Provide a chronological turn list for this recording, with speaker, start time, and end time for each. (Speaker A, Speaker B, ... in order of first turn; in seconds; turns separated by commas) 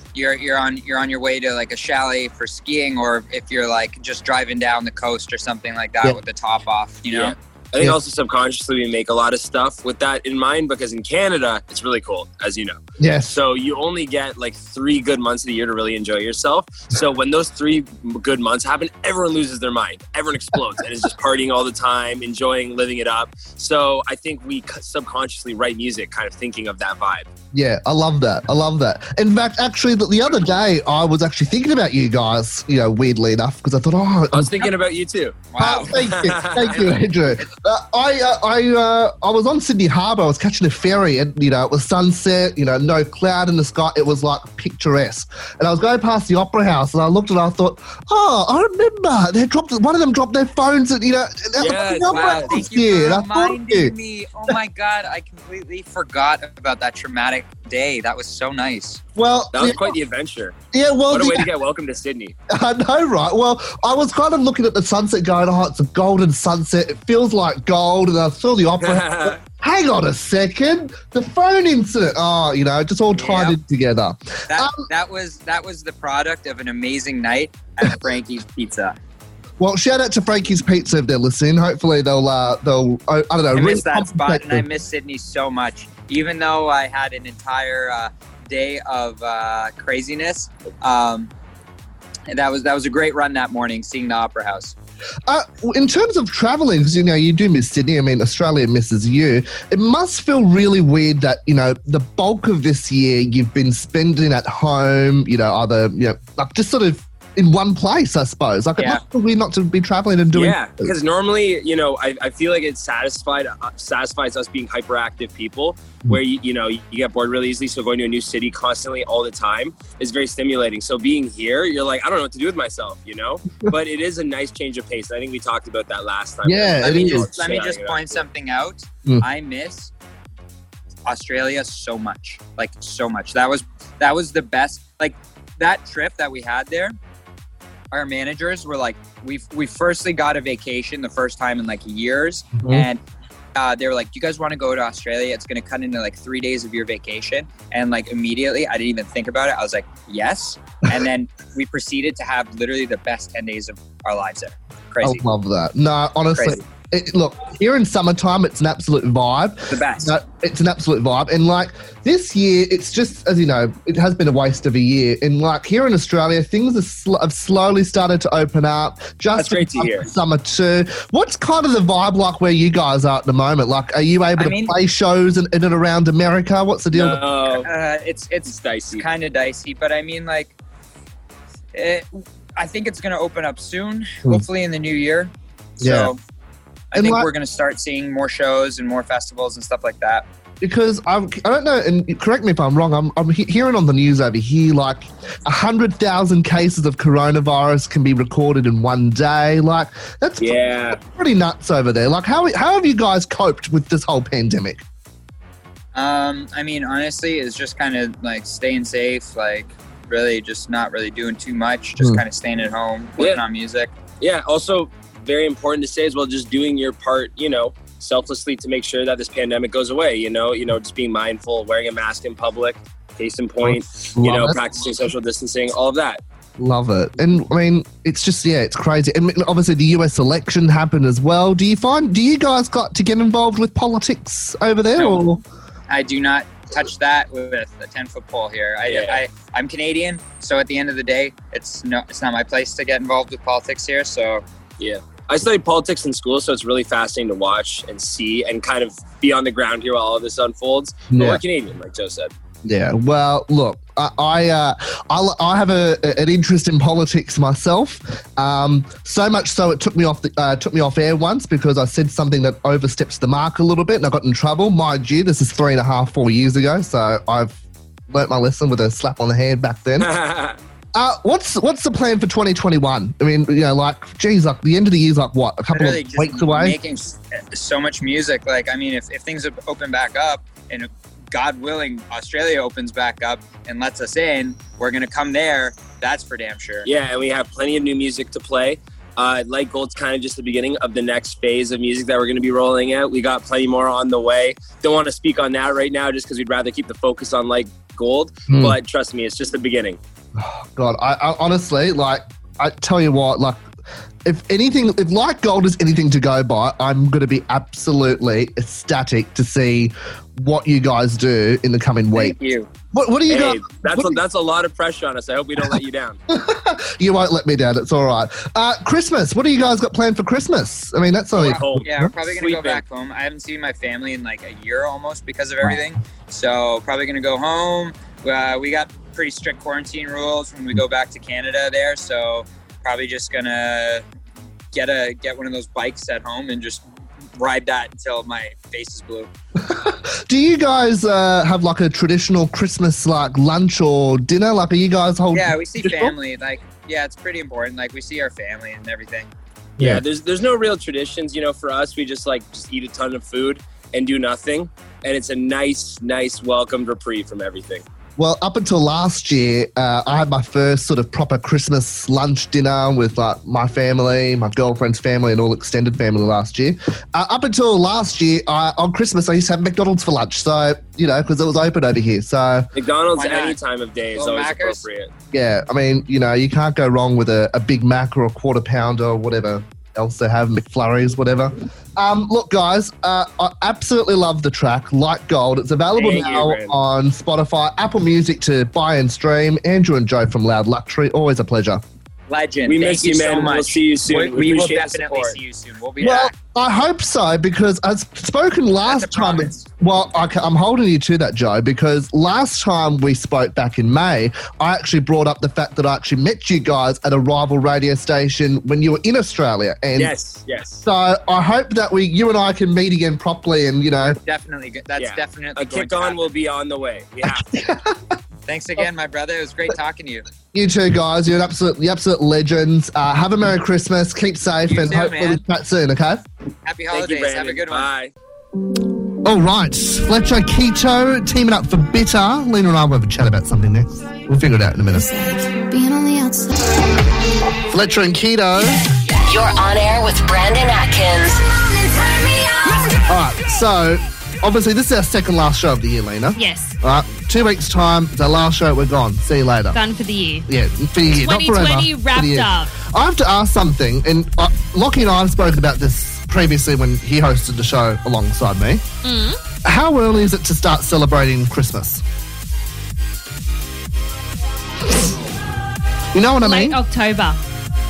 Speaker A: 0.1-7.4, Speaker B: 7.1-27.3, Speaker C: 13.0-13.4, Speaker C: 27.5-34.7, Speaker B: 34.3-37.0, Speaker A: 35.5-36.1, Speaker C: 35.6-53.9, Speaker B: 51.6-52.6, Speaker A: 51.7-59.0, Speaker C: 59.2-60.0, Speaker B: 59.5-60.6, Speaker C: 60.7-61.5, Speaker B: 61.1-62.4, Speaker C: 62.5-74.8, Speaker B: 68.8-69.4, Speaker A: 73.1-73.6, Speaker A: 74.5-79.0, Speaker C: 79.6-84.7, Speaker A: 83.5-91.3, Speaker A: 92.3-94.8, Speaker C: 95.3-110.9, Speaker B: 110.3-128.3, Speaker C: 126.4-127.3, Speaker A: 126.8-129.9, Speaker A: 131.1-137.0, Speaker A: 137.9-143.0, Speaker C: 142.6-142.9, Speaker A: 143.6-155.2, Speaker C: 155.0-177.2, Speaker A: 156.3-156.6, Speaker A: 159.7-160.2, Speaker B: 169.3-170.1, Speaker A: 174.4-174.8, Speaker B: 176.9-177.7, Speaker A: 177.5-180.6, Speaker B: 178.5-179.1, Speaker A: 181.7-186.2, Speaker C: 185.8-186.1, Speaker A: 186.9-190.3, Speaker C: 186.9-187.3, Speaker C: 190.6-204.8, Speaker B: 200.4-201.0, Speaker A: 205.9-213.9, Speaker B: 213.2-213.4, Speaker B: 214.2-226.2, Speaker C: 223.6-224.6, Speaker C: 226.6-235.4, Speaker A: 234.9-235.2, Speaker A: 235.9-244.4, Speaker B: 238.9-239.2, Speaker B: 244.8-252.3, Speaker C: 251.1-251.4, Speaker C: 252.6-270.1, Speaker B: 270.0-270.6, Speaker C: 270.9-276.8, Speaker A: 275.7-286.9, Speaker B: 286.9-300.0, Speaker C: 298.5-298.8, Speaker C: 300.4-303.7, Speaker C: 304.2-312.4, Speaker A: 312.1-312.7, Speaker C: 312.9-314.2, Speaker B: 313.3-316.2, Speaker C: 316.3-322.1, Speaker A: 321.4-334.0, Speaker B: 321.4-322.8, Speaker A: 334.7-336.8, Speaker A: 337.4-339.3, Speaker C: 339.6-346.1, Speaker A: 345.3-349.3, Speaker B: 349.8-357.9, Speaker C: 358.2-372.7, Speaker B: 372.8-375.1, Speaker A: 373.1-373.6, Speaker A: 374.1-374.8, Speaker C: 375.3-391.8, Speaker B: 385.9-386.8, Speaker A: 392.3-396.4, Speaker B: 392.7-395.4, Speaker C: 396.0-410.1, Speaker A: 398.9-399.7, Speaker B: 409.9-410.8, Speaker C: 410.8-414.2, Speaker A: 414.0-416.3, Speaker B: 415.0-417.5, Speaker C: 417.3-418.0, Speaker A: 418.5-420.3, Speaker C: 420.5-426.2, Speaker A: 424.7-425.4, Speaker A: 426.6-427.9, Speaker B: 426.9-428.1, Speaker C: 429.2-435.1, Speaker D: 435.6-436.4, Speaker C: 437.7-438.8, Speaker E: 439.2-442.9, Speaker C: 443.1-449.8, Speaker D: 446.4-446.8, Speaker D: 449.7-450.5, Speaker C: 450.5-458.8, Speaker D: 451.1-452.7, Speaker D: 459.0-459.4, Speaker C: 459.6-462.0, Speaker C: 466.1-466.8, Speaker D: 466.4-467.4